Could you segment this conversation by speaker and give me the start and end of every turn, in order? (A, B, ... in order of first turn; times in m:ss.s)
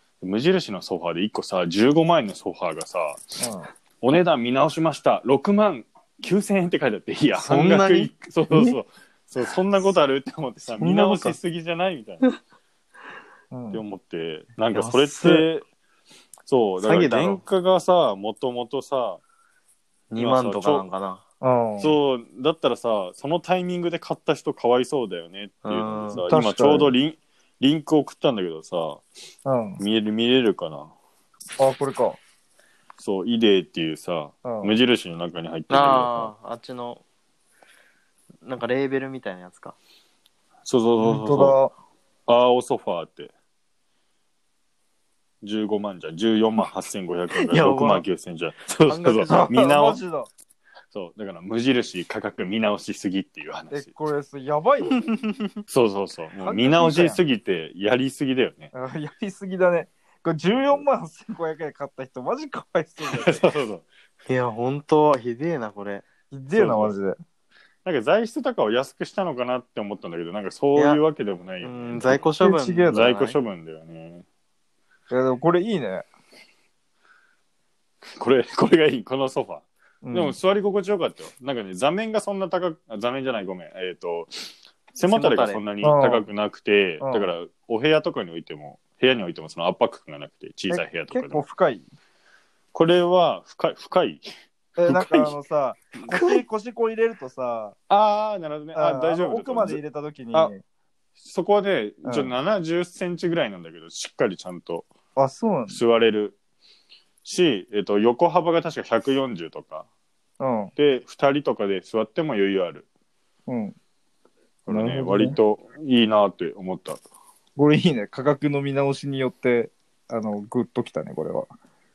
0:00.2-0:03.4 A
0:03.4-0:03.7 B
0:04.0-0:12.3 A
0:07.4-0:08.8 C
0:10.8-0:11.4 C
0:13.5-0:13.8 B
0:13.7-0:15.7 A
0:14.7-0:15.5 C
0:16.5-0:19.2 A
0:16.8-0:17.4 C
0:20.1-0:21.2 C
0:20.2-0:20.9 A
0:21.4-0:22.0 B
0:21.8-0:29.0 A
0:25.6-0:26.2 C
0:26.2-0:26.9 B
0:29.4-0:29.8 B
0:29.8-0:30.9 A
0:31.6-0:32.2 B
0:33.0-0:36.3 A
0:34.4-0:34.7 B
0:35.7-0:37.0 C
0:38.4-0:39.8 C
0:40.6-0:41.6 A
0:41.0-0:41.7 B
0:42.3-0:43.3 A
0:45.4-0:50.0 A
0:47.3-0:48.0 C
0:48.7-0:49.5 C
0:49.3-0:50.3 B
0:50.9-0:53.9 A
0:53.7-0:55.0 B
0:55.7-0:58.7 A
0:56.4-0:57.2 B
0:58.7-1:03.5 B
1:03.1-1:03.9 A
1:04.3-1:06.0 C
1:06.3-1:07.2 B
1:06.5-1:07.0 A
1:07.8-1:12.3 A
1:10.8-1:11.0 C
1:11.6-1:13.4 C
1:12.4-1:13.0 B
1:12.9-1:14.2 A
1:15.1-1:16.1 B
1:18.2-1:31.4 A
1:20.0-1:20.4 B
1:25.1-1:25.6 C
1:25.8-1:26.3 B
1:27.0-1:27.3 B
1:30.7-1:31.9 B
1:32.7-1:34.3 A
1:34.8-1:37.8 B
1:34.9-1:35.4 A
1:37.9-1:39.8 A
1:38.8-1:40.6 B
1:41.2-1:44.9 A
1:42.0-1:42.3 B
1:45.2-1:45.8 B
1:45.7-1:46.4 A
1:47.2-1:49.9 A
1:50.4-1:50.7 B
1:50.8-1:52.9 A
1:53.5-1:53.8 B
1:54.7-1:57.0 A
1:54.7-1:55.4 B
1:57.6-2:01.5 B